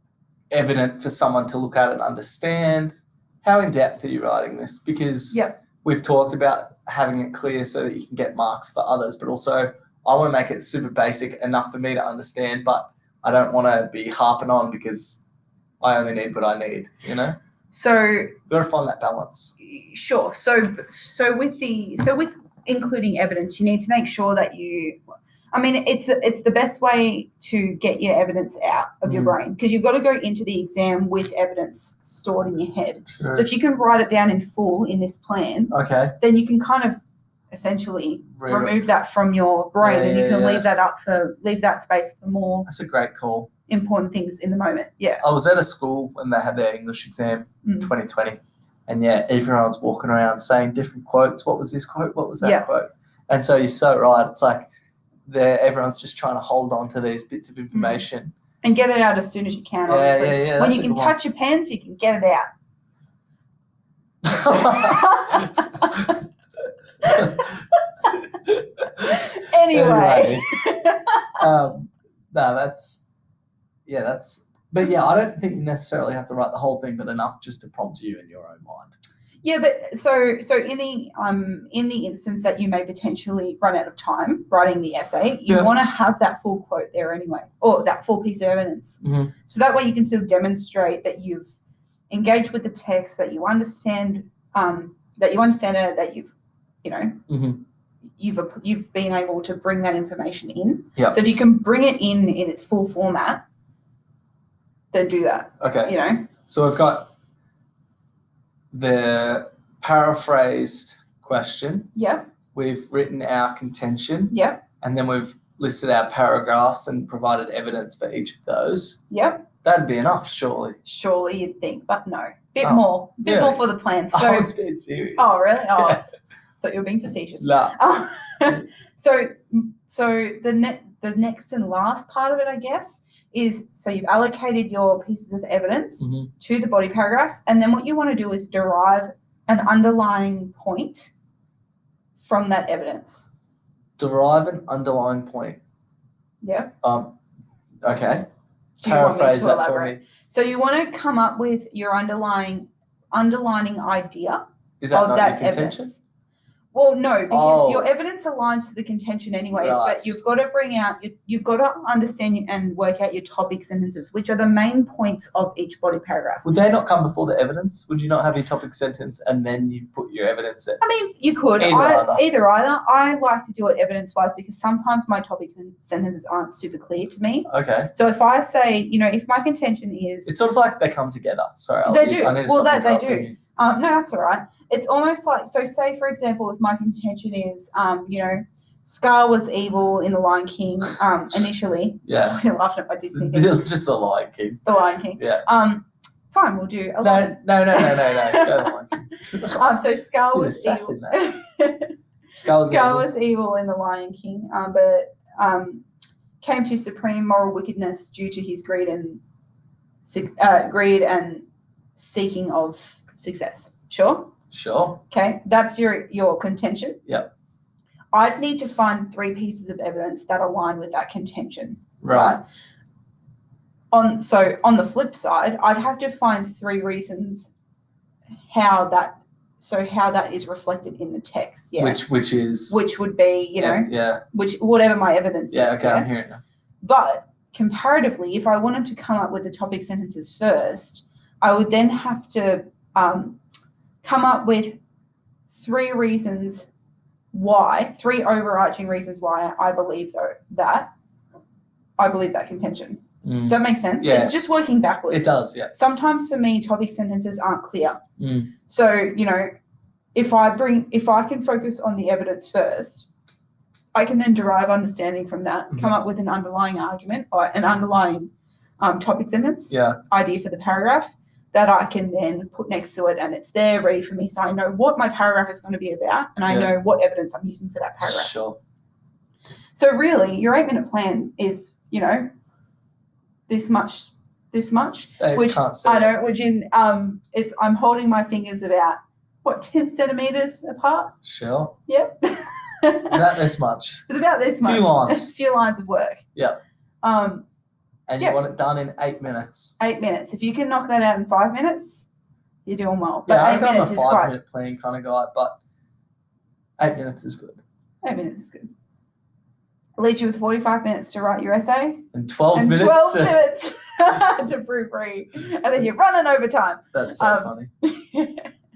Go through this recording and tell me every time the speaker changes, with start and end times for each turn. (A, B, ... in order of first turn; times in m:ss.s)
0:00.5-0:15.2 A
0:05.3-0:05.6 B
0:15.8-0:17.4 A
0:17.7-0:18.4 B
0:18.5-0:19.5 A
0:19.6-0:25.0 B
0:25.5-0:37.0 B
0:29.1-0:29.4 A
0:33.2-0:33.5 A
0:35.7-0:36.2 A
0:37.5-0:42.7 B
0:38.4-0:38.7 A
0:39.8-0:40.7 A
0:42.7-0:43.5 A
0:43.7-0:45.2 B
0:45.2-0:54.7 A
0:47.6-0:47.9 B
0:52.4-0:52.7 B
0:55.3-0:58.3 A
0:57.7-0:58.0 B
0:58.6-1:02.5 B
0:59.9-1:01.2 A
1:04.2-1:05.5 A
1:04.5-1:06.1 B
1:07.0-1:07.5 B
1:07.1-1:07.5 A
1:09.0-1:11.4 B
1:09.7-1:10.5 A
1:11.4-1:13.1 A
1:13.9-1:18.9 A
1:19.4-1:31.6 B
1:29.0-1:29.3 A
1:32.1-1:37.2 B
1:37.3-1:37.6 A
1:38.2-1:43.4 B
1:44.9-1:46.3 B
1:45.6-1:46.0 A
1:46.5-1:47.1 A
1:48.7-1:52.0 A
1:52.0-1:52.3 B
1:52.5-1:59.0 A
1:54.3-1:54.6 B
1:59.1-1:59.5 B
1:59.6-2:00.8 A
2:00.8-2:04.5 B
2:02.6-2:06.0 A
2:05.2-2:06.0 B
2:06.6-2:21.1 B
2:07.4-2:07.8 A
2:16.0-2:16.3 A
2:22.2-2:23.3 B
2:24.0-2:25.6 A
2:26.4-2:26.7 B
2:26.8-2:27.2 A
2:27.8-2:28.3 A
2:28.8-2:36.0 B
2:28.8-2:30.0 A
2:34.8-2:35.9 A
2:36.7-2:46.5 B
2:37.3-2:37.9 A
2:39.5-2:40.2 A
2:46.4-2:50.8 A
2:50.8-3:00.4 B
2:51.6-2:52.2 A
2:57.5-2:57.9 A
3:00.3-3:03.4 A
3:01.9-3:13.6 B
3:12.1-3:12.4 A
3:13.1-3:14.6 A
3:14.6-3:18.7 B
3:15.2-3:15.4 A
3:17.0-3:19.8 A
3:19.5-3:25.8 B
3:20.3-3:21.3 A
3:22.4-3:23.1 A
3:26.4-3:29.2 B
3:30.0-3:31.4 B
3:32.0-3:34.3 B
3:34.5-3:35.0 A
3:35.1-3:37.0 B
3:38.1-3:42.4 B
3:42.0-3:42.4 A
3:43.9-3:47.5 B
3:48.5-3:52.0 B
3:51.8-3:52.8 A
3:52.7-3:56.1 B
3:53.6-3:54.2 A
3:55.5-3:56.4 A
3:56.8-4:03.4 B
4:04.0-4:04.8 B
4:05.5-4:06.7 B
4:07.3-4:10.9 B
4:12.0-4:18.0 B
4:13.2-4:14.4 A
4:15.1-4:15.7 A
4:18.2-4:18.5 A
4:18.7-4:19.5 B
4:20.2-4:23.1 B
4:23.9-4:38.3 B
4:29.7-4:30.0 A
4:36.5-4:36.7 A
4:38.0-4:38.6 A
4:39.8-4:42.3 B
4:43.5-4:51.2 B
4:45.2-4:46.1 A
4:51.2-4:51.8 A
4:51.9-4:53.2 B
4:53.1-4:54.0 A
4:54.1-4:56.2 B
4:54.6-4:55.3 A
4:57.0-4:57.4 B
4:58.1-4:59.7 A
4:59.8-5:02.1 B
5:02.7-5:04.3 B
5:03.3-5:05.6 A
5:06.8-5:07.6 A
5:08.0-5:08.7 B
5:10.0-5:18.5 B
5:12.1-5:13.4 A
5:16.9-5:17.7 A